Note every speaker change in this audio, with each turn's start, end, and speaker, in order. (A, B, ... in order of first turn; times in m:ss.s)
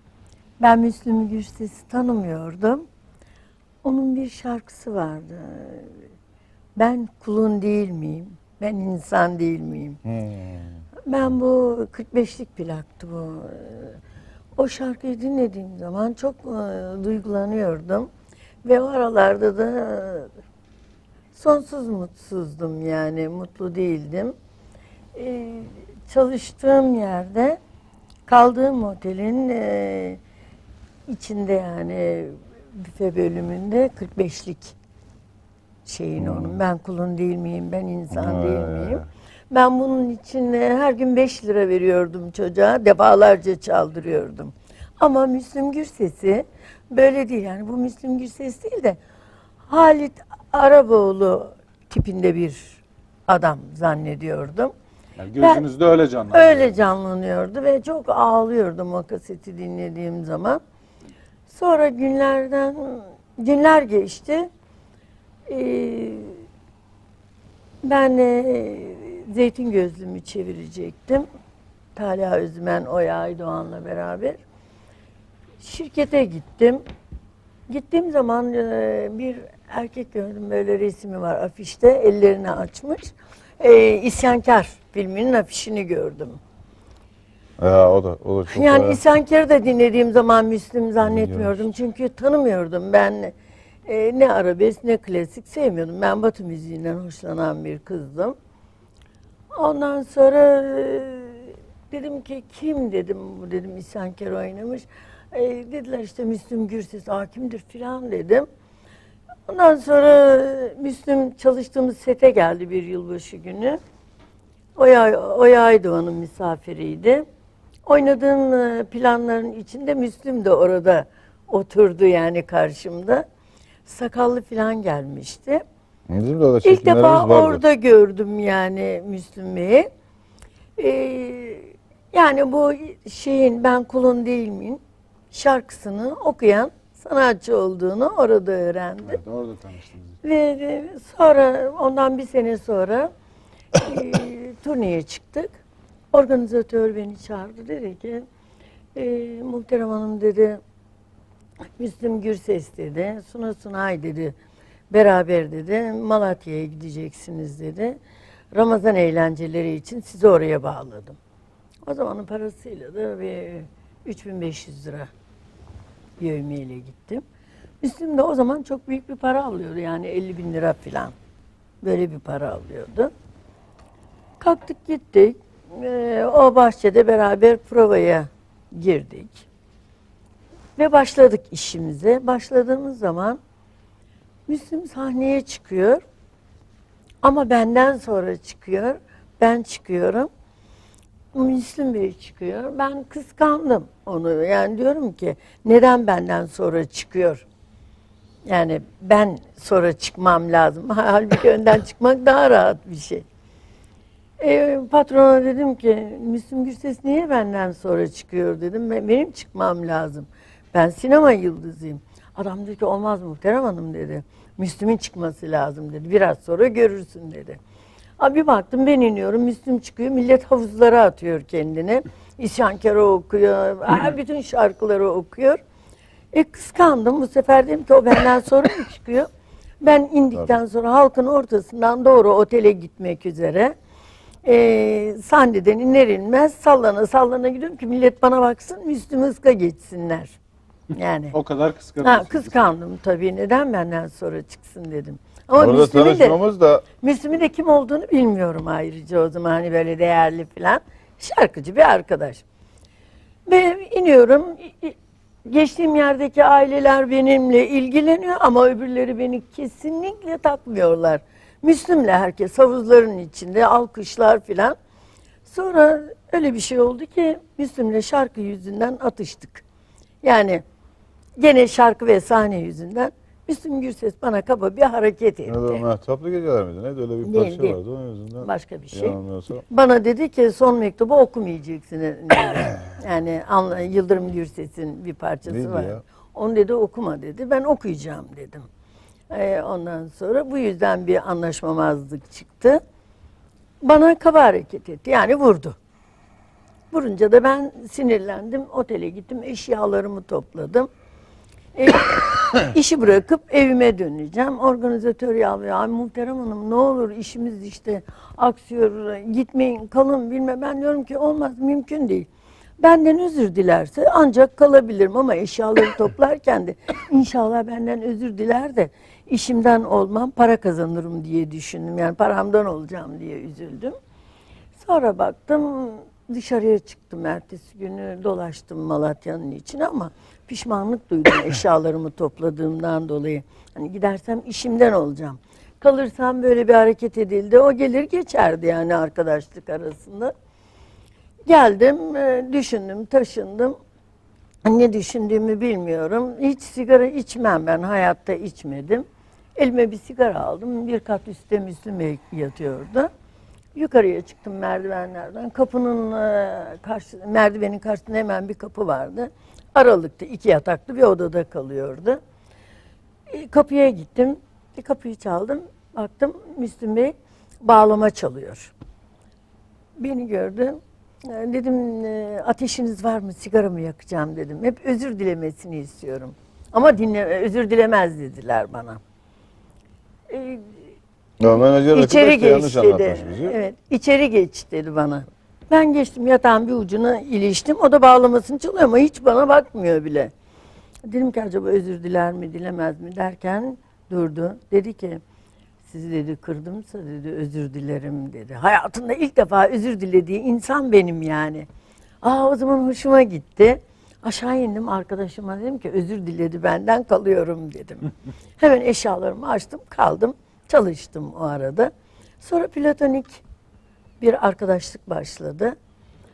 0:00.6-0:02.8 A
0:03.8-0:05.9 A
0:06.8-0:10.0 A
0:10.1-0:10.6 B
0:11.1-0:14.0 A
0:14.6-0:18.1 A
0:18.6-0:20.3 A
0:21.3-0:24.3 A
0:25.1-0:27.6 A
0:28.3-0:30.2 A
0:31.1-0:34.8 A
0:35.8-0:49.0 A
0:36.2-0:36.6 B
0:38.1-0:39.0 B
0:49.7-0:54.7 A
0:55.2-0:56.8 C
0:55.4-0:55.6 A
0:56.3-1:00.6 A
1:01.5-1:04.5 A
1:05.5-1:06.4 A
1:07.8-1:11.2 A
1:12.0-1:14.4 A
1:15.6-1:16.8 A
1:17.7-1:26.4 A
1:27.6-1:29.0 B
1:28.5-1:33.3 A
1:31.0-1:31.6 B
1:33.8-1:38.3 A
1:39.5-1:48.4 A
1:49.5-1:53.8 A
1:54.8-1:57.2 A
1:57.8-2:03.2 A
2:03.8-2:05.6 A
2:06.1-2:07.6 B
2:06.6-2:09.9 A
2:10.8-2:19.2 A
2:19.0-2:20.1 C
2:20.2-2:23.1 A
2:23.7-2:25.6 A
2:26.1-2:28.2 A
2:28.9-2:30.6 A
2:31.8-2:34.4 A
2:34.9-2:38.0 A
2:38.5-2:41.2 A
2:41.9-2:45.1 A
2:46.2-2:47.2 A
2:47.8-2:51.1 A
2:51.8-2:53.1 A
2:54.4-2:59.4 A
3:00.8-3:03.4 A
3:04.5-3:06.0 A
3:07.2-3:10.3 A
3:11.3-3:17.4 A
3:18.4-3:23.2 A
3:24.4-3:37.6 A
3:38.2-3:45.6 A
3:46.3-3:49.3 A
3:49.8-3:53.7 A
3:54.4-4:00.4 A
4:00.9-4:01.4 A
4:01.3-4:02.6 C
4:02.0-4:06.4 A
4:05.6-4:06.8 B
4:07.0-4:12.4 A
4:13.5-4:24.8 A
4:25.4-4:29.6 A
4:30.2-4:30.6 A
4:31.4-4:35.8 A
4:35.5-4:39.6 B
4:37.2-4:37.8 A
4:38.4-4:39.2 A
4:39.7-4:48.7 A
4:45.4-4:46.0 B
4:49.3-4:52.8 A
4:53.8-4:55.8 A
4:56.9-5:00.9 A
5:01.7-5:12.3 A
5:12.8-5:23.9 A
5:24.7-5:40.3 A
5:41.5-5:43.7 A
5:44.6-5:53.1 A
5:53.7-6:02.2 A
6:03.3-6:08.7 A
6:10.0-6:19.0 A
6:20.3-6:20.8 A
6:21.4-6:23.6 B
6:21.8-6:30.3 A
6:31.1-6:35.2 A
6:35.8-6:41.6 A
6:42.2-6:51.9 A
6:52.4-6:53.4 A
6:54.2-6:55.7 A